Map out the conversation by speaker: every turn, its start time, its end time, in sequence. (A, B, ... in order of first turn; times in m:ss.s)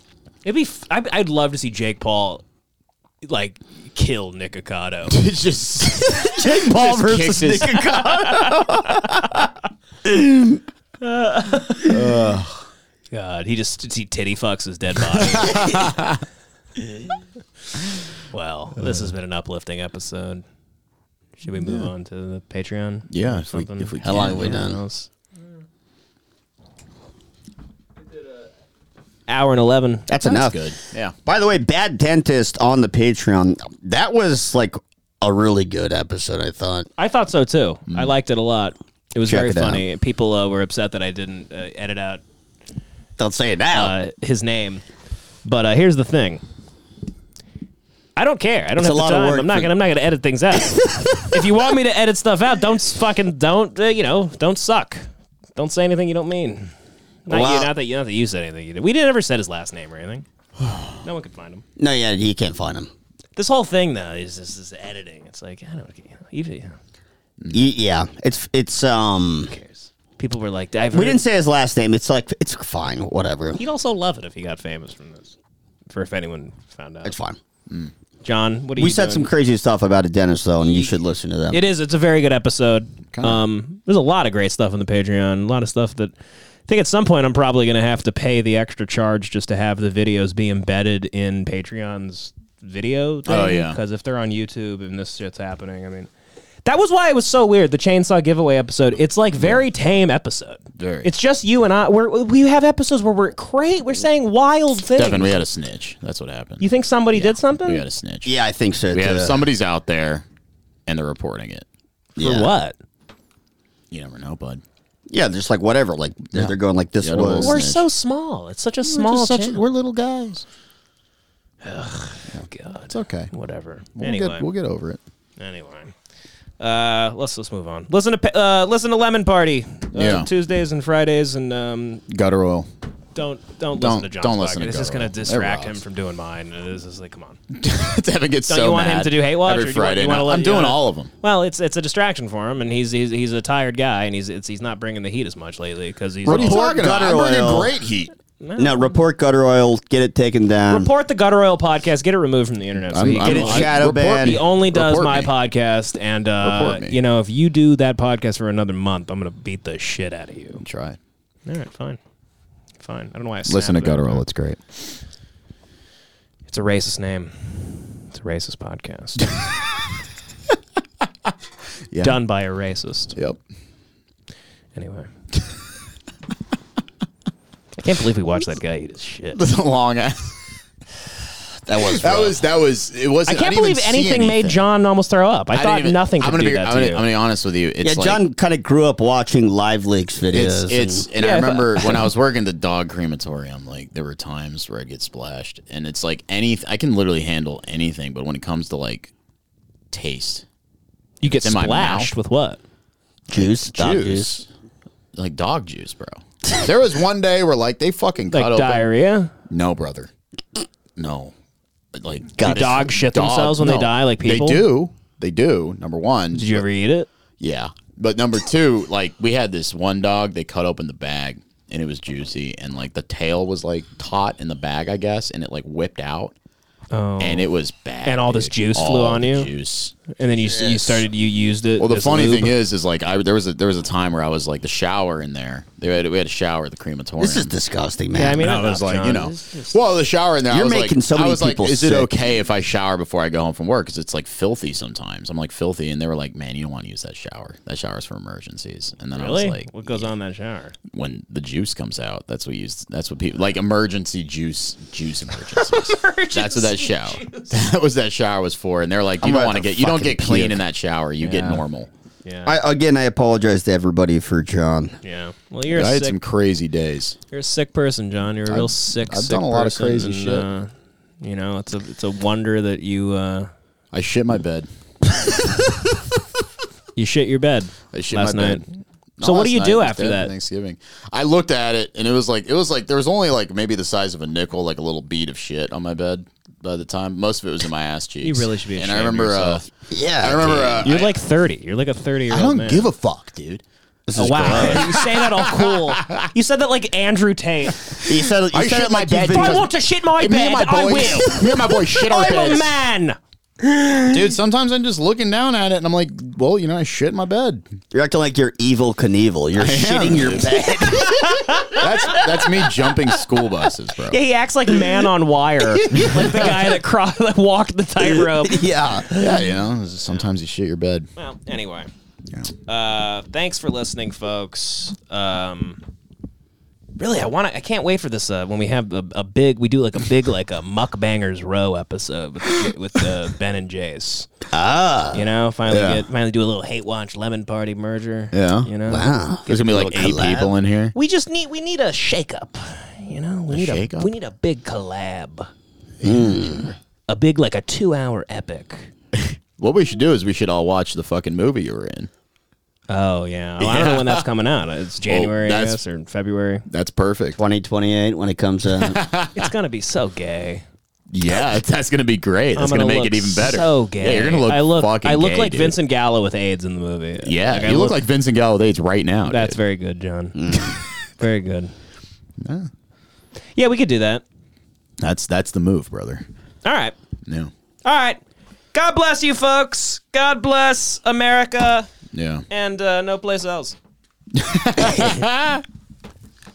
0:00.4-0:02.4 A
0:03.2-0:05.1 A
0:05.1-0:08.0 B
0:06.2-0:09.2 C
0:08.0-0:09.1 A
0:10.0-0:10.6 C
0:11.0-0:11.9 A
0:11.9-0:12.6 B
0:13.1-0:15.8 A
0:15.2-0:16.2 B
0:18.3-0:20.4 A
0:18.8-0:19.0 B
0:21.4-0:25.1 A
0:21.6-0:21.9 B
0:23.1-0:24.7 B
0:24.0-0:24.8 C
0:29.3-0:30.3 A
0:30.1-0:30.7 C
0:30.2-0:31.1 B
0:31.3-0:36.9 C
0:37.0-0:42.2 A
0:37.9-0:38.1 B
0:39.2-0:39.8 C
0:43.2-0:43.9 C
0:43.7-0:44.8 A
0:45.4-0:46.4 A
0:48.2-0:56.7 A
0:48.8-0:49.7 C
0:50.7-0:51.3 C
0:57.3-1:00.2 A
0:57.3-0:57.7 C
1:01.0-1:01.6 A
1:01.8-1:02.9 C
1:03.4-1:06.8 A
1:07.5-1:09.5 C
1:09.5-1:11.2 A
1:10.9-1:13.6 C
1:13.6-1:15.4 A
1:15.9-1:17.2 A
1:17.0-1:17.4 C
1:18.2-1:19.3 A
1:18.8-1:21.6 C
1:20.7-1:20.9 A
1:21.5-1:26.1 A
1:23.1-1:23.4 B
1:26.7-1:36.1 A
1:33.3-1:33.8 B
1:36.6-1:45.4 A
1:39.4-1:39.6 B
1:40.8-1:41.1 B
1:44.9-1:48.4 B
1:46.6-1:47.8 A
1:48.2-1:49.4 C
1:48.9-1:50.2 B
1:50.8-1:51.6 B
1:52.2-1:52.5 C
1:52.2-1:52.8 A
1:53.9-1:54.6 B
1:55.1-1:57.7 C
1:56.3-1:57.9 B
1:57.4-1:59.6 A
1:58.9-2:00.4 B
2:01.6-2:04.5 A
2:02.3-2:03.3 B
2:04.0-2:05.0 B
2:05.4-2:05.9 A
2:06.6-2:12.0 A
2:09.9-2:10.3 B
2:12.1-2:12.7 B
2:13.1-2:17.4 A
2:13.8-2:15.8 B
2:17.5-2:21.1 B
2:18.5-2:26.6 A
2:26.2-2:28.1 B
2:26.3-2:27.7 C
2:28.4-2:28.9 A
2:28.6-2:30.9 C
2:30.7-2:40.6 A
2:32.9-2:35.3 B
2:33.2-2:34.4 C
2:36.4-2:37.0 B
2:40.6-2:41.0 B
2:41.4-2:42.0 A
2:42.8-2:44.2 A
2:43.5-2:44.9 B
2:46.5-2:49.2 A
2:51.9-2:52.2 B
2:52.0-2:53.2 A
2:54.7-2:55.1 A
2:57.8-2:59.4 A
2:59.4-3:00.4 B
3:01.7-3:02.4 C
3:01.8-3:04.6 B
3:03.3-3:07.0 A
3:05.5-3:08.2 B
3:07.8-3:11.0 C
3:10.3-3:19.1 B
3:11.2-3:12.0 A
3:19.9-3:20.4 B
3:21.2-3:22.6 A
3:21.2-3:22.1 B
3:23.3-3:24.4 C
3:23.4-3:24.4 B
3:25.1-3:28.9 B
3:28.3-3:29.3 A
3:29.5-3:30.1 B
3:31.0-3:31.3 B
3:31.9-3:36.6 B
3:32.4-3:32.8 C
3:32.4-3:34.7 A
3:36.3-3:37.1 A
3:37.4-3:46.4 B
3:46.9-3:47.5 A
3:47.2-3:50.2 B
3:48.0-3:49.5 A
3:50.1-3:52.5 A
3:50.6-3:51.0 C
3:51.8-3:57.5 B
3:57.2-3:58.5 C
3:58.1-3:59.8 A
3:58.4-4:10.1 B
4:00.5-4:02.1 C
4:09.1-4:10.8 A
4:10.9-4:21.9 B
4:15.6-4:17.6 A
4:19.2-4:20.6 C
4:21.2-4:21.6 A
4:22.2-4:22.6 A
4:22.4-4:24.9 C
4:25.0-4:26.2 A
4:25.7-4:27.2 B
4:27.3-4:33.5 A
4:28.5-4:30.5 B
4:33.9-4:34.7 B
4:37.0-4:38.6 A
4:37.9-4:38.7 B
4:39.2-4:49.6 B
4:39.2-4:40.3 A
4:48.2-4:49.7 A
4:49.9-4:50.9 C
4:50.2-4:51.1 B
4:50.7-4:52.9 A
4:52.3-4:53.6 B
4:54.1-4:54.9 C
4:54.1-4:57.8 A
4:54.3-4:56.3 B
4:58.0-4:59.7 C
4:58.1-5:02.7 B
4:59.3-5:03.2 A
5:04.1-5:07.6 B
5:07.9-5:11.6 C
5:09.6-5:10.7 B
5:10.9-5:12.7 A
5:11.7-5:14.2 B
5:14.1-5:18.7 A
5:15.9-5:16.7 B
5:18.1-5:19.4 C
5:19.0-5:21.1 B
5:21.2-5:21.9 A
5:22.6-5:25.8 A
5:27.0-5:34.3 A
5:34.5-5:35.3 C
5:35.1-5:39.2 A
5:35.7-5:36.0 B
5:38.3-5:38.7 B
5:38.9-5:40.5 C
5:39.4-5:40.9 B
5:40.9-5:45.5 A
5:43.5-5:44.1 B
5:46.0-5:46.7 B
5:46.0-5:46.7 C
5:47.1-5:48.9 A
5:49.2-5:52.1 B
5:52.9-5:56.6 A
5:53.6-5:54.2 B
5:55.0-5:55.8 B
5:56.7-5:57.4 B
5:57.4-5:59.0 C
5:58.8-5:59.5 B
5:59.4-6:00.6 A
6:01.1-6:05.7 B
6:02.6-6:08.0 A
6:07.2-6:09.6 B
6:09.3-6:10.5 A
6:10.4-6:10.7 C
6:10.6-6:10.8 B
6:11.2-6:11.7 A
6:12.4-6:12.7 B
6:13.6-6:14.2 A
6:15.0-6:16.3 B
6:16.6-6:16.9 A
6:17.3-6:17.5 B
6:17.8-6:18.2 A
6:18.7-6:21.9 A
6:22.1-6:22.4 B
6:22.5-6:23.8 A
6:24.4-6:25.6 B